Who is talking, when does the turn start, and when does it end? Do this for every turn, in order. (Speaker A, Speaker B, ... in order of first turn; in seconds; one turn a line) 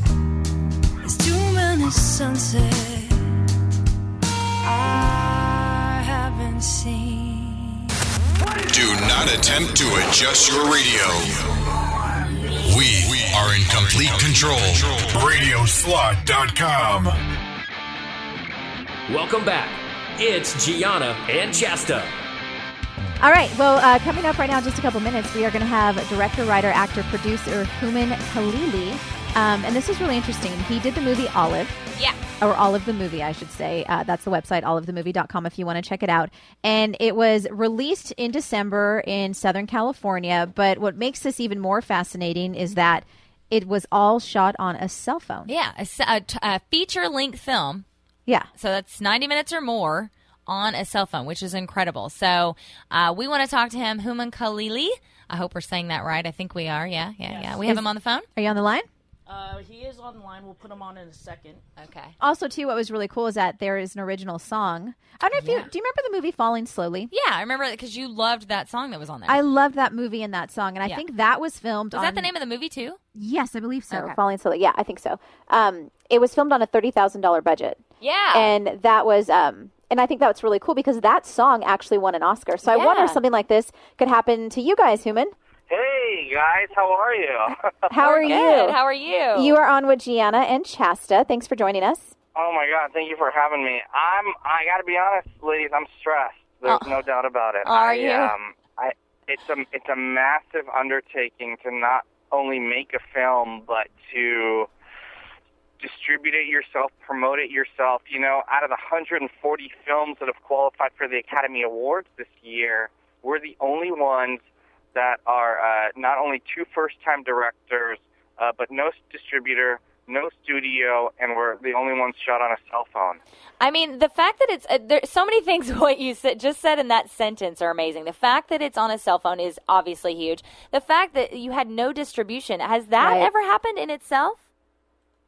Speaker A: 1.0-3.3
Speaker A: 4.6-7.9
Speaker B: 8.7-11.4
Speaker B: 12.6-17.2
Speaker C: 19.1-22.1
Speaker D: 23.2-31.8
Speaker D: 32.4-45.5
Speaker E: 45.5-47.9
Speaker E: 48.6-58.3
Speaker F: 57.3-57.6
Speaker D: 58.4-58.9
Speaker F: 59.3-61.6
Speaker E: 61.8-62.1
Speaker D: 62.2-67.1
Speaker E: 65.4-65.7
Speaker E: 67.1-69.4
Speaker D: 69.3-72.3
Speaker E: 71.9-73.0
Speaker D: 73.1-77.8
Speaker E: 73.9-74.2
Speaker E: 78.0-78.5
Speaker D: 78.3-85.3
Speaker E: 82.7-83.2
Speaker G: 85.7-88.3
Speaker D: 87.9-88.8
Speaker E: 88.0-89.6
Speaker D: 89.3-92.1
Speaker G: 92.3-104.7
Speaker E: 96.7-97.0
Speaker E: 97.6-98.3
Speaker G: 105.8-114.4
Speaker G: 114.9-123.2
Speaker E: 123.6-134.4
Speaker D: 133.0-133.3